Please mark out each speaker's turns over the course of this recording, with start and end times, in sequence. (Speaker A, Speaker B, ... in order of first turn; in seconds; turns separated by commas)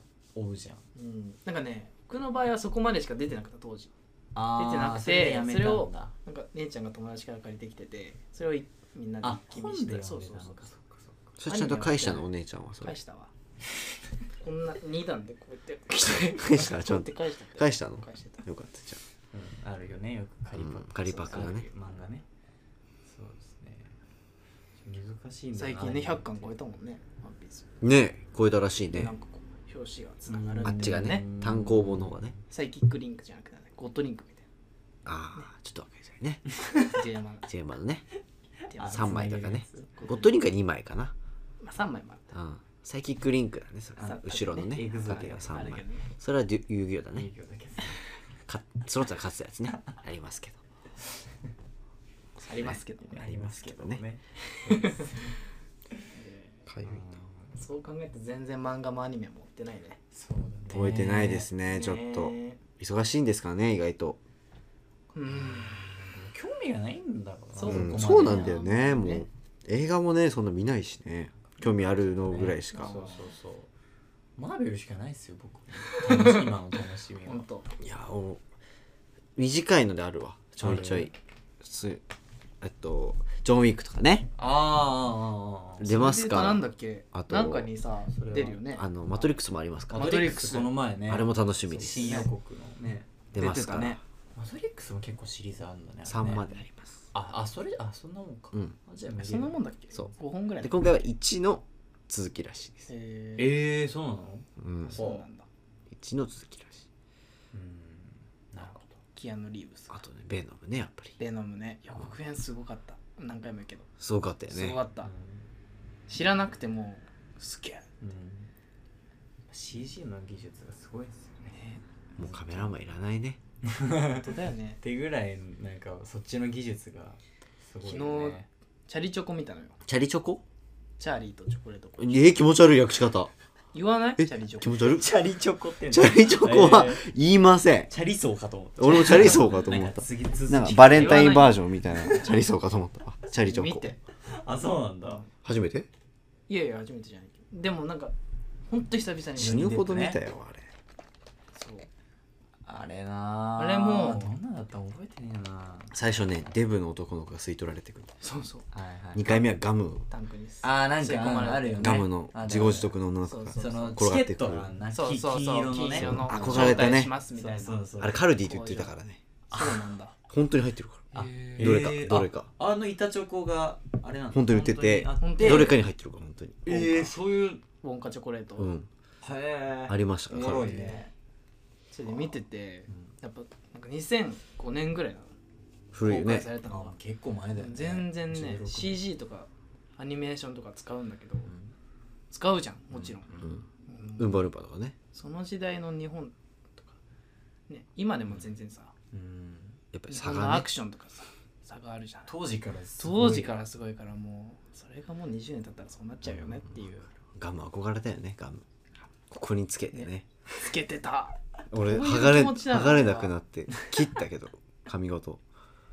Speaker A: 0.3-0.8, Speaker B: 0.9-3.9, Speaker A: 4.3-6.1, Speaker B: 4.5-10.7, Speaker A: 9.2-11.3, Speaker C: 11.4-13.0, Speaker B: 11.4-12.3, Speaker B: 12.8-13.3, Speaker B: 14.4-18.4, Speaker C: 16.3-19.0, Speaker A: 19.3-22.2, Speaker C: 20.6-21.7, Speaker B: 21.1-21.6, Speaker A: 23.1-23.9, Speaker A: 24.8-26.5, Speaker B: 25.5-27.7, Speaker C: 27.8-29.1, Speaker B: 28.9-31.3, Speaker A: 30.3-32.4, Speaker C: 30.6-32.4, Speaker B: 32.5-34.5, Speaker C: 35.0-36.4, Speaker B: 36.8-37.5, Speaker C: 37.5-38.1, Speaker A: 38.7-39.9, Speaker B: 38.7-40.4, Speaker C: 38.9-41.1, Speaker B: 41.6-42.3, Speaker C: 42.3-47.3, Speaker A: 44.0-45.8, Speaker B: 44.0-46.1, Speaker A: 47.1-48.0, Speaker C: 48.5-50.6, Speaker B: 52.4-53.4, Speaker C: 52.5-54.0, Speaker A: 53.0-55.4, Speaker B: 54.5-55.3, Speaker B: 56.1-56.6, Speaker C: 56.7-57.0, Speaker A: 56.8-57.6, Speaker B: 57.5-60.0, Speaker A: 60.1-61.5, Speaker C: 60.7-64.2, Speaker B: 60.8-62.6, Speaker B: 65.1-65.8, Speaker A: 65.3-68.7, Speaker B: 67.6-69.3, Speaker C: 67.7-73.0, Speaker A: 72.3-73.7, Speaker B: 72.6-73.3, Speaker A: 74.4-77.5, Speaker B: 76.0-76.5, Speaker B: 77.3-77.7, Speaker C: 77.8-78.4, Speaker C: 79.4-82.0, Speaker A: 80.6-81.1, Speaker C: 82.6-84.3, Speaker A: 84.4-85.9, Speaker C: 85.8-87.7, Speaker B: 85.8-88.9, Speaker A: 88.1-88.6, Speaker C: 88.8-90.5, Speaker A: 89.9-93.1, Speaker B: 89.9-90.7, Speaker C: 91.1-92.2, Speaker B: 91.9-92.3, Speaker C: 93.3-94.0, Speaker B: 93.3-94.0, Speaker A: 94.3-96.4, Speaker C: 96.1-97.0, Speaker A: 97.1-99.6, Speaker B: 99.2-100.9, Speaker C: 99.9-102.9, Speaker B: 102.9-103.6, Speaker A: 103.4-105.2, Speaker C: 104.6-105.0, Speaker B: 104.8-105.5, Speaker C: 105.9-106.9, Speaker A: 107.5-109.0, Speaker B: 109.1-110.0, Speaker C: 109.9-111.2, Speaker B: 111.2-113.9, Speaker C: 114.0-114.8, Speaker B: 114.5-115.1, Speaker A: 115.0-115.5, Speaker B: 116.1-117.9, Speaker A: 118.0-118.5, Speaker A: 119.5-121.6, Speaker B: 121.5-121.8, Speaker C: 122.1-123.4, Speaker A: 122.2-122.7, Speaker A: 123.6-128.5, Speaker B: 124.1-124.8, Speaker B: 127.8-129.8, Speaker C: 129.8-130.4, Speaker B: 131.0-132.4, Speaker C: 132.0-133.3, Speaker B: 133.7-135.0, Speaker C: 134.2-135.1, Speaker A: 134.9-137.1, Speaker C: 135.9-137.9, Speaker A: 137.9-141.5, Speaker C: 138.8-143.9, Speaker B: 140.8-142.2, Speaker B: 143.4-144.0, Speaker A: 144.2-145.2, Speaker C: 145.4-145.9, Speaker B: 146.5-148.1, Speaker B: 148.7-149.8, Speaker C: 149.4-150.7, Speaker A: 149.4-150.2, Speaker B: 151.5-151.9, Speaker A: 152.6-156.5, Speaker B: 153.6-154.3, Speaker C: 155.9-158.1, Speaker B: 158.2-158.7, Speaker A: 158.7-159.3, Speaker C: 159.1-160.1, Speaker B: 160.1-162.1, Speaker A: 160.6-162.9, Speaker C: 161.8-164.7, Speaker B: 163.2-164.0, Speaker A: 163.6-168.4, Speaker B: 164.9-168.9, Speaker C: 165.9-167.1, Speaker C: 168.0-169.2, Speaker B: 169.5-170.1, Speaker A: 169.5-169.9, Speaker C: 170.3-172.5, Speaker B: 171.1-171.7, Speaker A: 171.1-175.8, Speaker C: 174.3-176.9, Speaker B: 175.2-175.8, Speaker A: 176.6-177.6, Speaker B: 176.7-177.1, Speaker B: 177.8-178.7, Speaker C: 178.6-178.9, Speaker A: 179.2-181.1, Speaker C: 179.9-180.8, Speaker B: 180.3-181.1, Speaker B: 181.9-185.3, Speaker C: 185.9-186.5, Speaker B: 186.0-186.9, Speaker A: 186.1-189.1, Speaker B: 187.6-191.5, Speaker A: 191.5-191.7, Speaker B: 192.3-194.4, Speaker A: 192.9-193.2, Speaker C: 193.4-193.6, Speaker C: 194.2-195.0, Speaker B: 195.1-197.0, Speaker B: 197.7-198.9, Speaker A: 199.1-199.8, Speaker C: 199.9-200.7, Speaker B: 200.1-202.3, Speaker A: 202.3-203.5, Speaker B: 203.0-207.1, Speaker C: 207.3-208.6, Speaker C: 209.3-210.2, Speaker B: 209.9-213.3, Speaker C: 211.7-215.4